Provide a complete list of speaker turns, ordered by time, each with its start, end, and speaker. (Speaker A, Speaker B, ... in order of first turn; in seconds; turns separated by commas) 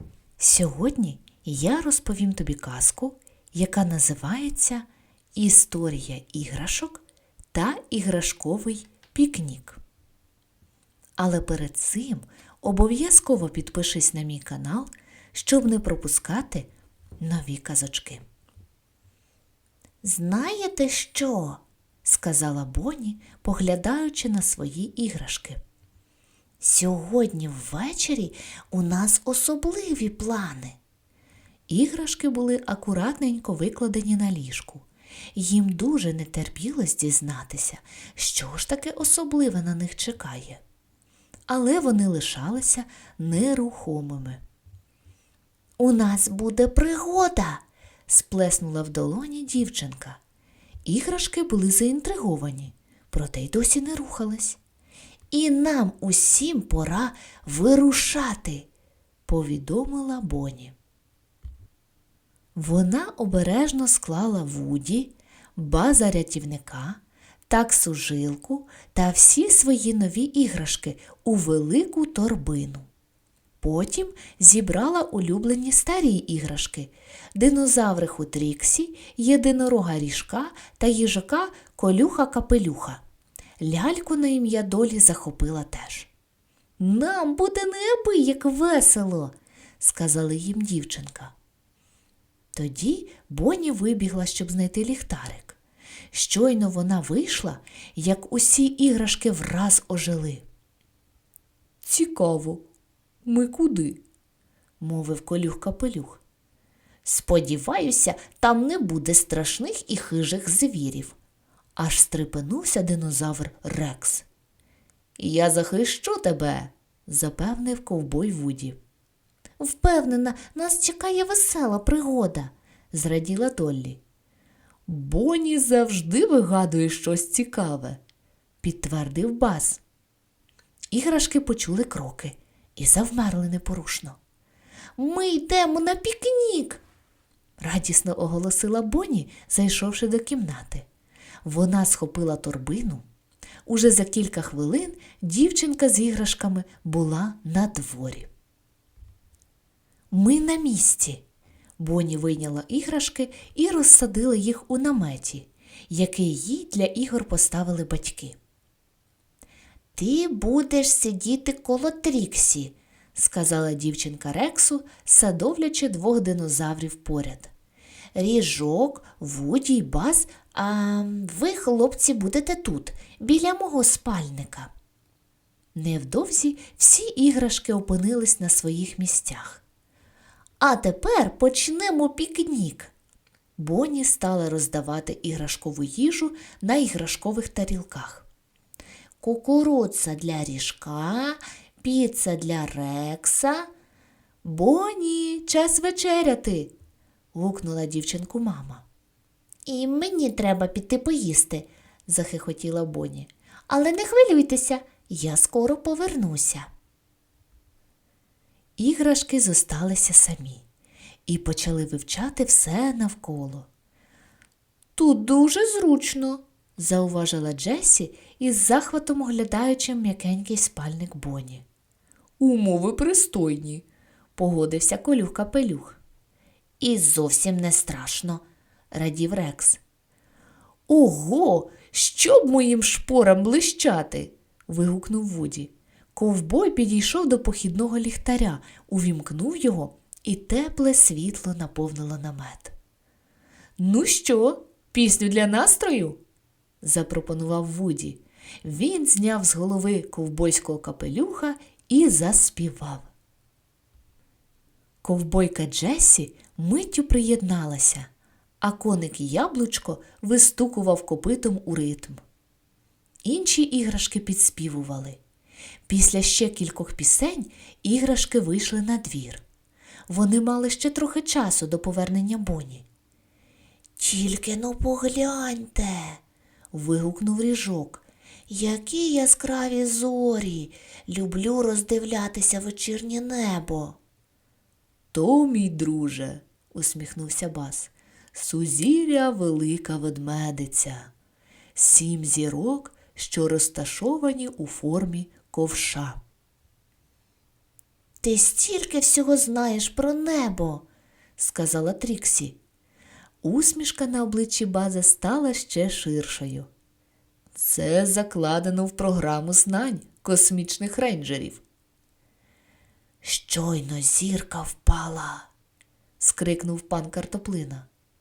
Speaker A: 0.4-9.8, Speaker A: 11.2-16.7, Speaker A: 17.2-18.2, Speaker A: 20.0-25.6, Speaker A: 26.6-30.8, Speaker A: 31.7-40.6, Speaker A: 41.5-44.4, Speaker A: 45.8-50.2, Speaker A: 50.8-54.6, Speaker A: 55.3-58.7, Speaker A: 59.2-60.7, Speaker A: 62.5-72.9, Speaker A: 73.6-83.0, Speaker A: 83.6-86.1, Speaker A: 86.8-91.3, Speaker A: 92.5-95.6, Speaker A: 96.1-100.5, Speaker A: 101.8-102.7, Speaker A: 103.2-104.0, Speaker A: 104.8-106.2, Speaker A: 107.0-111.2, Speaker A: 111.8-114.2, Speaker A: 115.2-118.8, Speaker A: 119.6-124.0, Speaker A: 124.9-128.0, Speaker A: 128.6-129.8, Speaker A: 130.9-134.2, Speaker A: 135.0-136.8, Speaker A: 137.6-140.9, Speaker A: 141.4-143.0, Speaker A: 143.7-148.3, Speaker A: 150.1-151.2, Speaker A: 151.8-158.4, Speaker A: 159.9-167.5, Speaker A: 168.1-174.7, Speaker A: 175.7-179.6, Speaker A: 180.6-182.9, Speaker A: 183.6-188.3, Speaker A: 189.2-193.7, Speaker A: 194.4-196.7, Speaker A: 197.3-198.8, Speaker A: 199.7-206.7, Speaker A: 208.8-210.6, Speaker A: 211.2-213.7, Speaker A: 214.9-221.6, Speaker A: 222.4-223.8, Speaker A: 224.3-226.0, Speaker A: 226.8-229.8, Speaker A: 230.9-242.7, Speaker A: 243.8-246.2, Speaker A: 246.8-253.1, Speaker A: 255.0-258.1, Speaker A: 258.6-262.2, Speaker A: 263.2-265.2, Speaker A: 265.9-269.4, Speaker A: 270.1-272.9, Speaker A: 274.0-276.2, Speaker A: 276.7-284.0, Speaker A: 285.1-291.1, Speaker A: 291.7-296.2, Speaker A: 298.2-300.8, Speaker A: 301.4-302.6, Speaker A: 303.4-306.7, Speaker A: 307.5-311.6, Speaker A: 313.2-315.5, Speaker A: 316.2-317.9